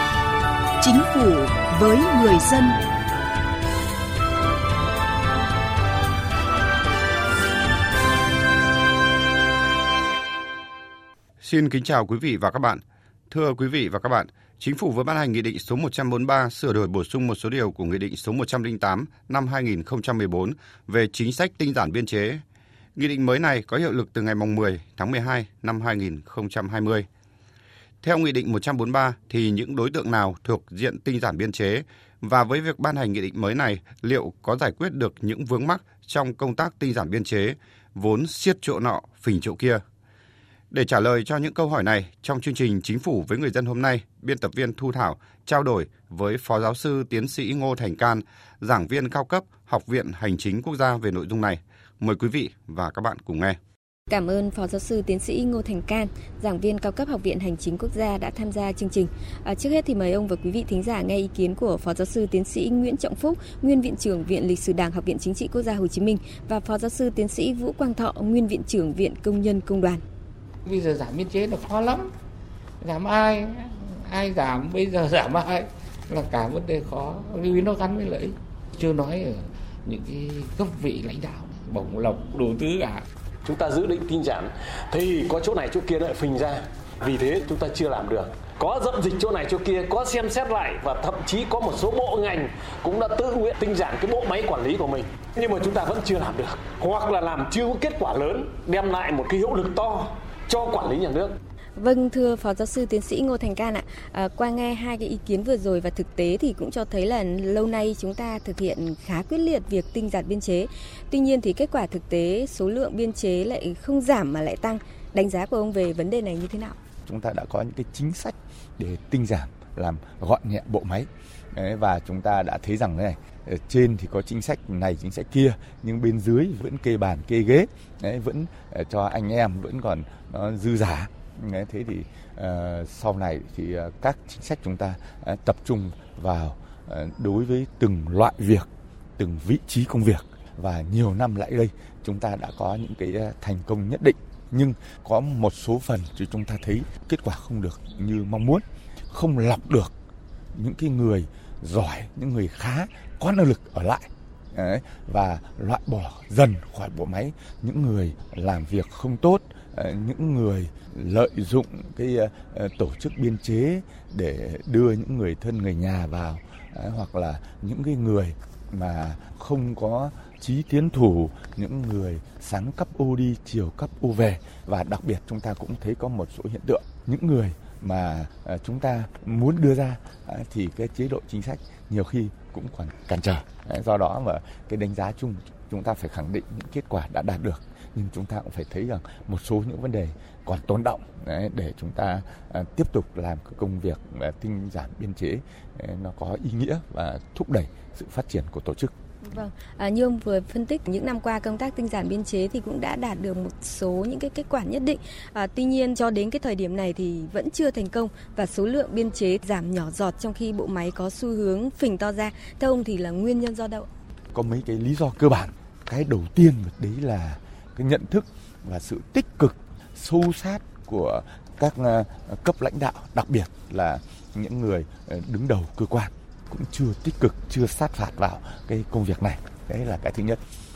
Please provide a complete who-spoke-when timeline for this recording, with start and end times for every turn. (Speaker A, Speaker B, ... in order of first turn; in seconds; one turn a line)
Speaker A: 0.8-2.8
Speaker B: 11.4-22.4
Speaker B: 23.0-27.1
Speaker B: 28.0-39.8
Speaker B: 40.7-53.6
Speaker C: 54.1-70.0
Speaker D: 70.7-72.1
Speaker D: 72.8-83.0
Speaker E: 83.4-101.4
Speaker C: 101.8-116.8
Speaker F: 117.0-149.9
Speaker F: 150.5-198.9
Speaker C: 199.2-213.9
Speaker F: 214.3-230.4